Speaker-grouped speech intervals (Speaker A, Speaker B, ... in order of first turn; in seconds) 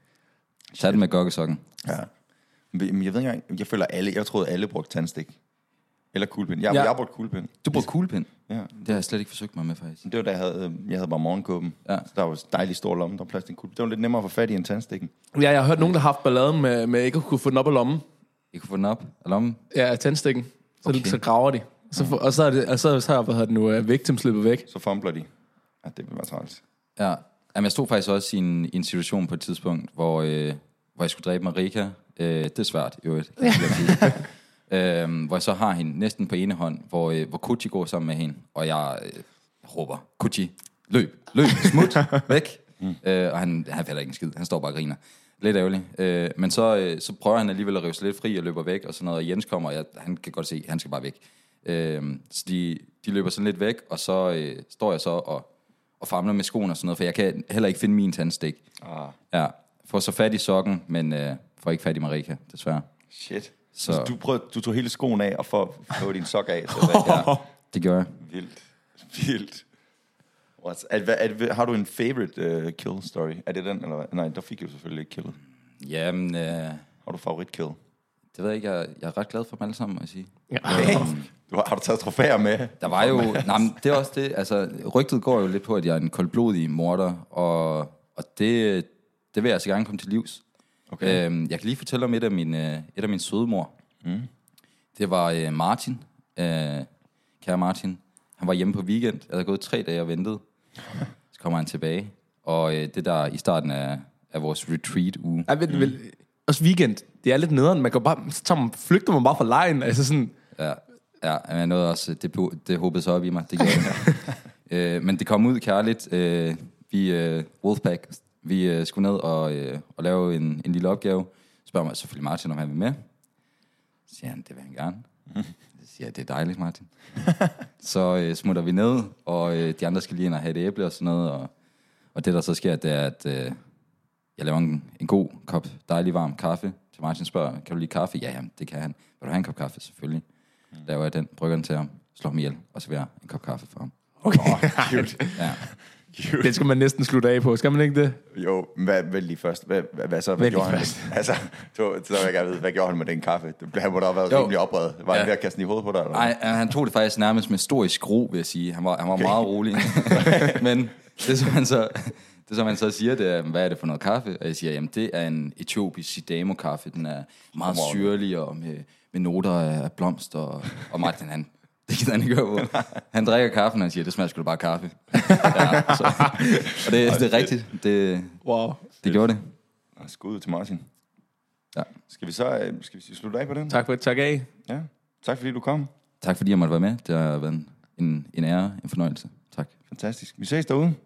Speaker A: 0.8-1.0, 1.8-2.1, 2.7-5.3, 6.1-7.8, 8.5-9.0, 10.0-15.1, 24.7-25.3, 25.8-26.6, 58.8-59.1, 63.1-67.4, 68.2-69.6, 70.6-75.3, 77.0-77.8, 80.6-83.8, 90.9-91.2, 94.0-94.3, 144.3-146.6, 148.3-156.3, 159.1-160.6, 167.6-168.1, 175.3-175.7, 176.8-177.5, 180.0-180.8, 182.1-183.8, 184.7-185.9, 189.9-191.0
Speaker B: 0.8-1.6, 7.6-10.0, 18.5-19.6, 20.8-21.2, 27.0-55.5, 56.0-58.6, 59.3-62.9, 63.7-64.1, 67.0-68.1, 75.8-76.8, 78.3-81.3, 82.8-90.4, 91.0-93.7, 95.0-96.9, 97.4-100.4, 101.3-105.9, 110.5-123.0, 124.1-125.0, 125.8-126.9, 127.8-131.5, 132.1-133.6, 134.4-140.2, 140.8-143.9, 145.3-145.6, 154.3-154.5, 156.1-178.3, 179.0-179.5, 186.2-189.7
Speaker C: 15.3-18.0, 19.7-24.6, 66.8-67.4, 80.5-81.1, 105.5-110.3, 144.2-145.4, 146.4-148.2, 150.4-151.1, 175.3-176.8, 178.4-178.9, 183.7-184.5